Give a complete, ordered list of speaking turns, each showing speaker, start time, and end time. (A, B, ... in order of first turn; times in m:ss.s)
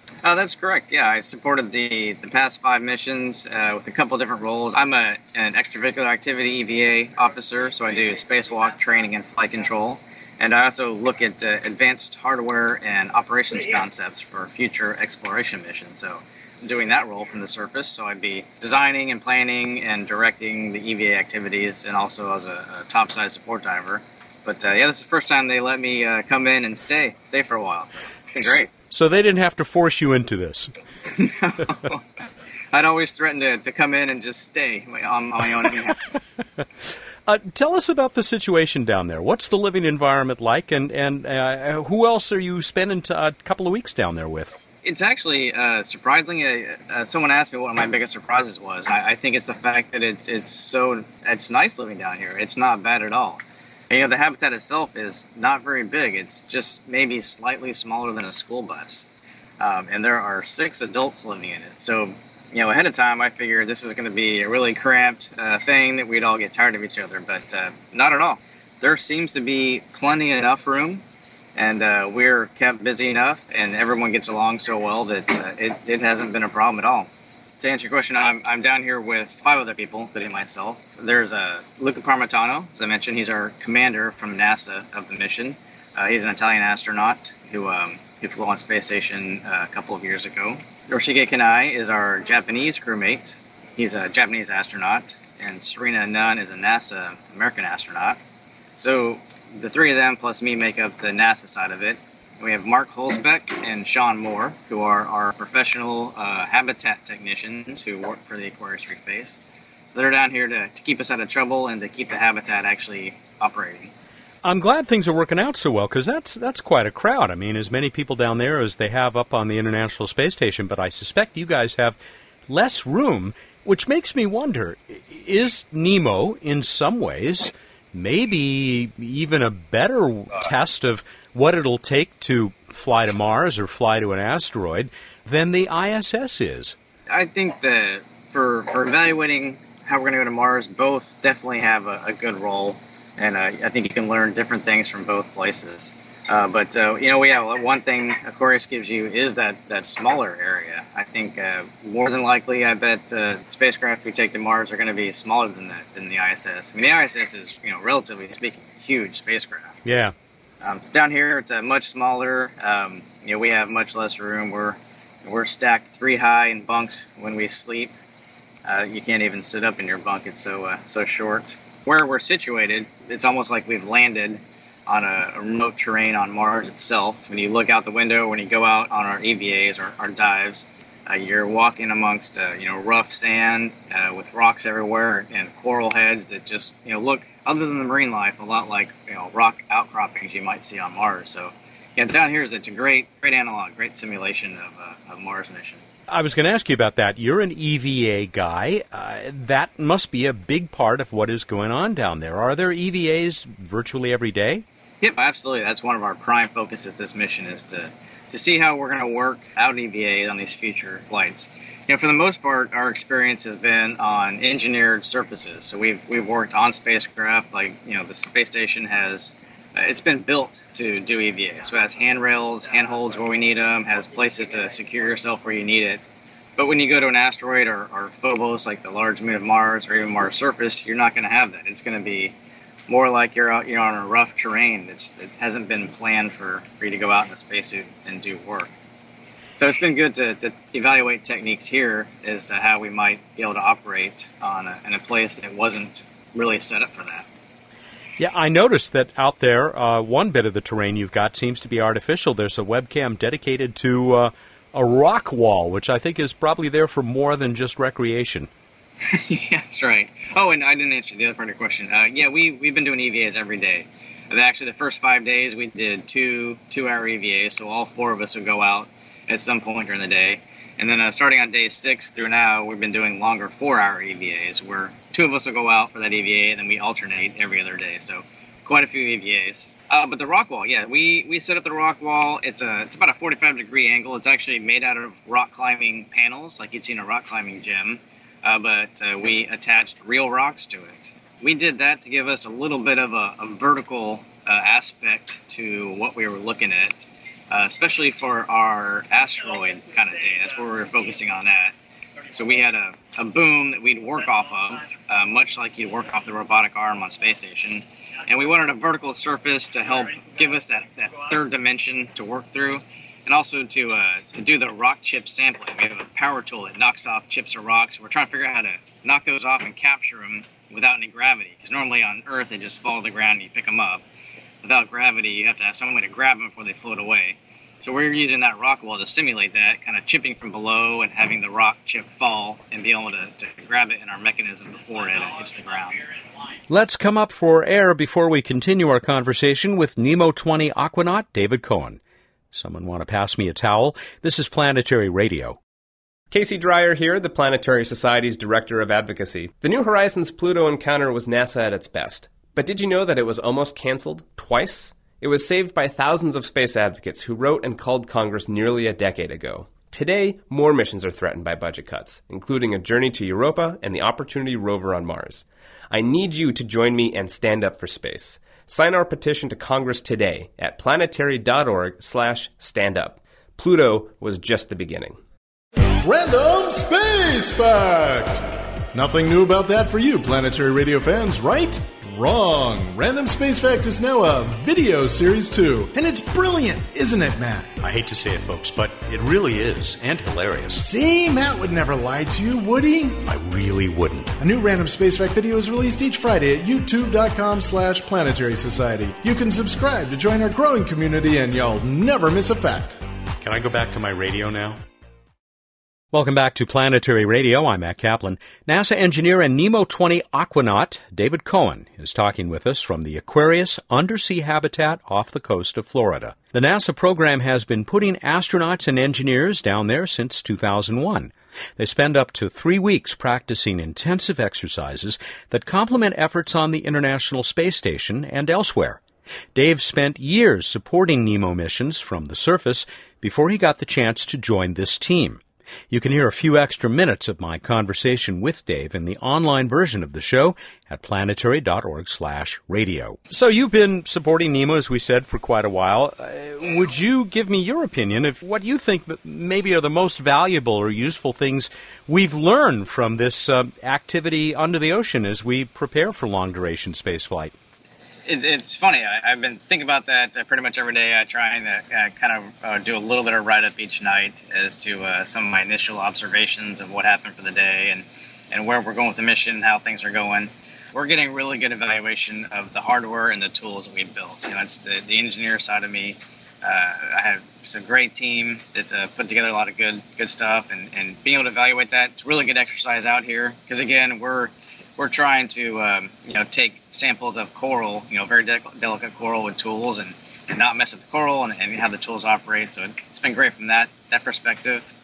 0:00.2-0:28.7 A
0:28.9-0:30.7 B
0:31.1-0:32.0 A
0:32.7-0:36.2 A
0:37.3-0:44.6 B
0:44.8-0:59.1 A
0:59.6-1:11.0 A
1:11.6-1:17.1 A
1:17.6-1:38.2 A
1:38.8-1:53.9 A
1:54.4-2:02.0 B
2:02.5-2:16.8 B
2:17.1-2:39.8 A
2:39.9-2:40.1 B
2:40.6-2:47.9 A
2:48.6-3:15.8 A
3:16.1-3:24.6 B
3:25.0-3:46.1 A
3:46.6-3:52.3 A
3:52.9-3:58.7 A
3:59.6-4:07.2 A
4:08.2-4:18.5 B
4:19.0-5:01.7 A
5:02.3-5:24.0 A
5:24.6-5:36.0 A
5:36.7-5:42.0 B
5:42.5-5:45.6 B
5:46.3-6:15.2 C
6:16.0-6:27.7 D
6:27.8-6:30.8 B
6:30.8-6:33.2 D
6:33.2-6:34.3 B
6:34.4-6:43.0 D
6:43.4-6:44.8 B
6:46.1-7:09.0 B
7:09.6-7:37.5 B
7:38.3-8:14.8 A